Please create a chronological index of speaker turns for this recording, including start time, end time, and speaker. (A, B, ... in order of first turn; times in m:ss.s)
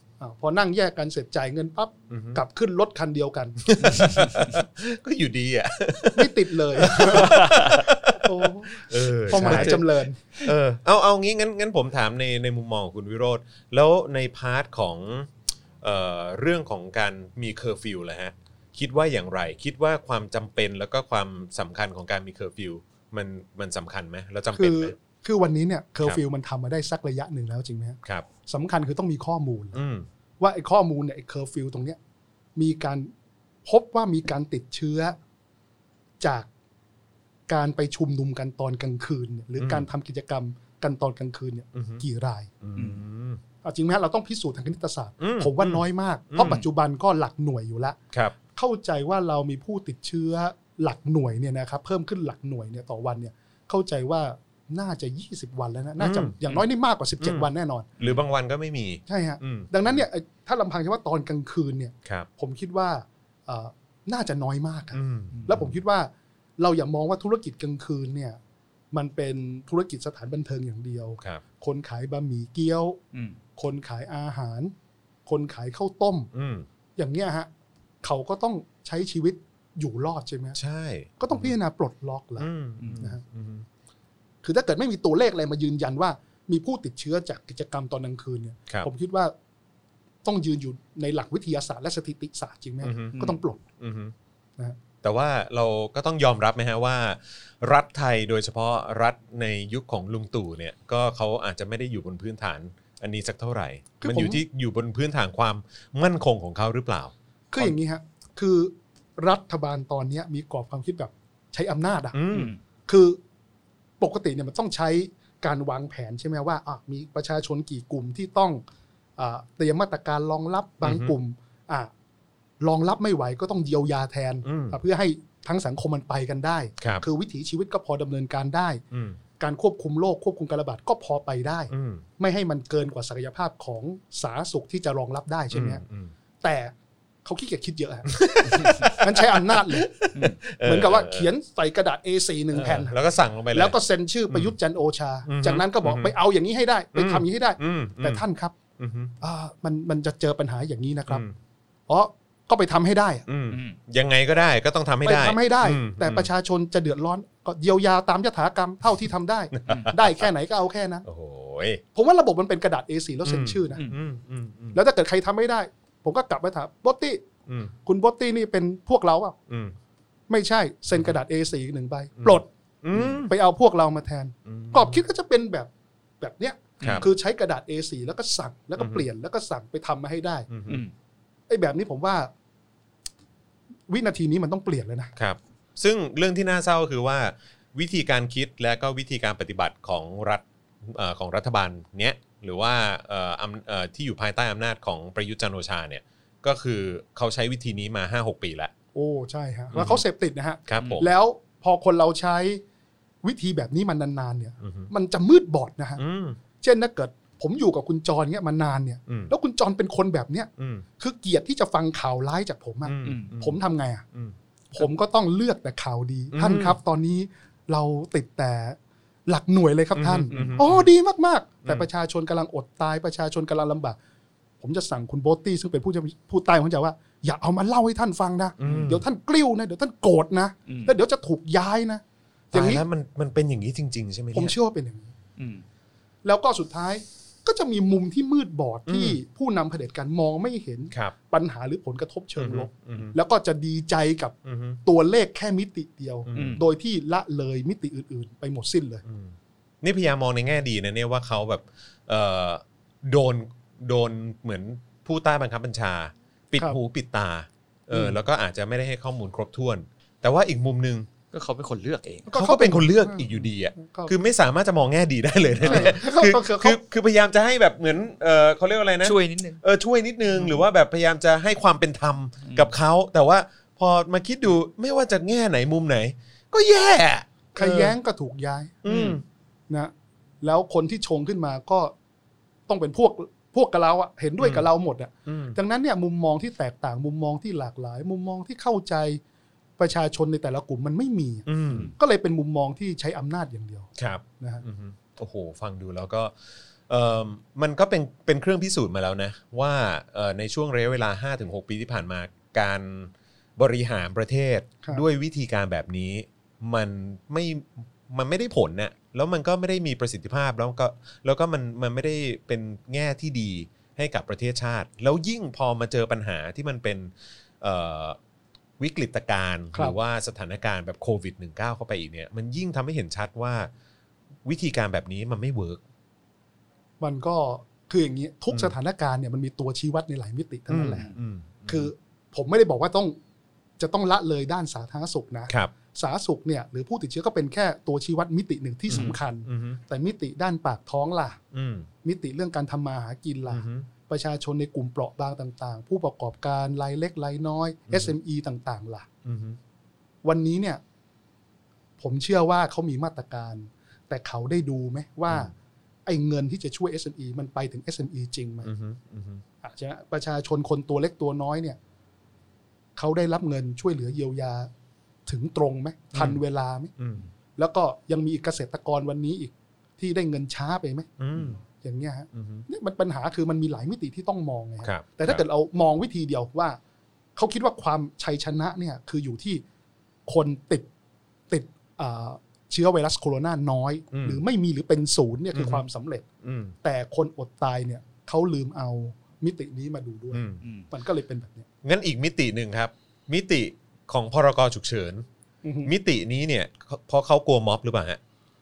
0:00.2-0:04.1 A
0:02.1-0:02.4 B
0:03.6-0:09.8 B
0:06.1-0:10.2 A
0:07.1-0:07.8 C
0:09.3-0:10.5 C
0:10.4-0:15.3 B
0:15.8-0:24.9 B
0:24.5-0:29.8 A
0:29.7-0:30.1 B
0:30.4-0:32.0 A
0:32.6-0:33.1 A
0:33.6-0:35.2 A
0:36.2-0:36.5 A
0:37.5-0:42.5 A
0:39.6-0:39.9 B
0:41.7-0:42.0 B
0:42.6-0:43.4 B
0:42.8-0:43.0 C
0:43.6-0:48.0 A
0:45.2-0:46.7 B
0:48.5-0:57.9 A
0:56.0-0:56.4 B
0:57.2-0:57.5 B
0:58.0-1:00.0 B
0:59.1-1:08.4 A
1:04.9-1:05.8 B
1:08.9-1:13.0 A
1:13.1-1:13.4 C
1:13.6-1:14.7 A
1:15.2-1:16.3 A
1:16.3-1:16.7 B
1:17.0-1:17.5 A
1:18.0-1:20.6 A
1:20.6-1:21.5 B
1:21.2-1:23.2 A
1:22.4-1:23.7 B
1:24.4-1:29.3 A
1:30.2-1:33.6 A
1:32.8-1:33.2 B
1:33.1-1:33.4 C
1:33.8-1:34.1 B
1:35.0-1:47.7 B
1:44.0-1:44.4 A
1:47.5-1:52.2 A
1:52.1-1:52.5 B
1:52.3-1:52.6 C
1:52.9-1:53.2 A
1:54.0-1:58.6 A
1:59.2-2:01.9 A
2:00.8-2:01.1 B
2:02.6-2:08.8 A
2:04.4-2:04.8 B
2:08.9-2:09.2 B
2:09.4-2:15.8 A
2:11.7-2:12.0 B
2:15.5-2:16.1 B
2:16.4-2:16.7 A
2:17.2-2:19.9 A
2:18.1-2:21.3 B
2:18.5-2:18.8 C
2:20.6-2:22.9 A
2:22.5-2:23.8 B
2:23.5-2:28.5 A
2:24.3-2:24.6 B
2:25.2-2:26.1 B
2:26.9-2:28.2 B
2:28.8-2:29.1 B
2:29.2-2:31.2 A
2:31.1-2:31.3 B
2:31.9-2:33.2 A
2:33.3-2:36.3 B
2:33.5-2:33.8 C
2:35.0-2:41.0 A
2:39.5-2:40.3 B
2:41.0-2:41.8 B
2:41.9-2:43.8 A
2:43.2-2:44.8 B
2:44.7-2:47.3 A
2:47.5-2:47.7 B
2:47.8-2:49.4 A
2:49.5-2:49.7 B
2:50.3-2:55.7 A
2:52.2-2:53.3 B
2:54.4-2:55.0 B
2:56.2-3:00.5 A
2:56.8-2:57.0 C
2:56.8-2:57.1 B
2:58.8-2:59.1 B
3:00.5-3:00.8 B
3:01.5-3:02.3 A
3:03.9-3:05.1 A
3:05.2-3:18.7 B
3:18.9-3:22.6 A
3:19.7-3:20.0 B
3:20.7-3:21.1 B
3:20.8-3:21.0 C
3:23.2-3:26.0 A
3:24.6-3:24.9 B
3:26.0-3:26.4 B
3:26.6-3:34.0 A
3:29.1-3:29.3 B
3:30.6-3:30.8 B
3:32.8-3:33.6 B
3:33.0-3:33.3 C
3:34.7-3:44.0 A
3:36.3-3:36.8 B
3:39.9-3:40.9 B
3:40.3-3:40.6 C
3:44.6-3:52.8 A
3:48.6-3:49.0 B
3:50.7-3:51.0 C
3:52.5-3:54.5 B
3:54.3-3:55.1 A
3:55.4-3:55.6 C
3:56.2-4:09.0 A
3:58.9-3:59.2 B
4:02.4-4:03.1 B
4:04.4-4:04.8 B
4:06.3-4:06.6 B
4:06.3-4:06.6 C
4:09.0-4:21.1 B
4:21.3-4:22.3 C
4:22.3-4:24.1 A
4:22.3-4:37.9 B
4:25.6-4:25.9 C
4:25.6-4:26.8 A
4:29.0-4:29.6 C
4:32.4-4:32.7 C
4:37.5-4:38.8 A
4:38.8-4:39.2 B
4:38.8-4:39.2 C
4:39.7-4:41.9 A
4:42.7-4:49.2 A
4:44.4-4:44.7 B
4:45.2-4:45.6 B
4:49.8-4:54.6 A
4:51.4-4:51.9 B
4:54.0-4:56.3 B
4:56.9-5:18.2 B
5:18.8-5:23.7 B
5:24.4-5:25.8 B
5:27.0-5:31.1 A
5:30.7-5:31.9 B
5:31.7-5:33.2 A
5:33.8-5:41.4 A
5:38.9-5:39.8 B
5:41.5-5:41.9 B
5:42.0-5:49.1 A
5:43.5-5:43.9 B
5:47.9-5:48.1 B
5:49.2-5:49.6 B
5:50.2-5:50.8 A
5:52.0-5:55.5 A
5:56.0-5:58.7 A
5:58.6-5:59.4 B
5:59.6-6:01.8 A
6:03.0-6:04.7 A
6:05.3-6:06.9 A
6:06.1-6:06.4 B
6:07.0-6:07.3 B
6:07.6-6:11.1 A
6:11.2-6:11.6 B
6:11.7-6:16.8 A
6:12.3-6:12.6 B
6:14.8-6:15.4 B
6:17.4-6:19.6 A
6:20.3-6:20.9 A
6:21.5-6:26.2 A
6:24.1-6:24.4 B
6:25.5-6:25.8 B
6:26.4-6:26.7 B
6:26.8-6:31.7 A
6:30.3-6:30.6 B
6:30.6-6:30.9 C
6:31.8-6:35.2 B
6:35.6-6:35.9 A
6:35.8-6:38.2 B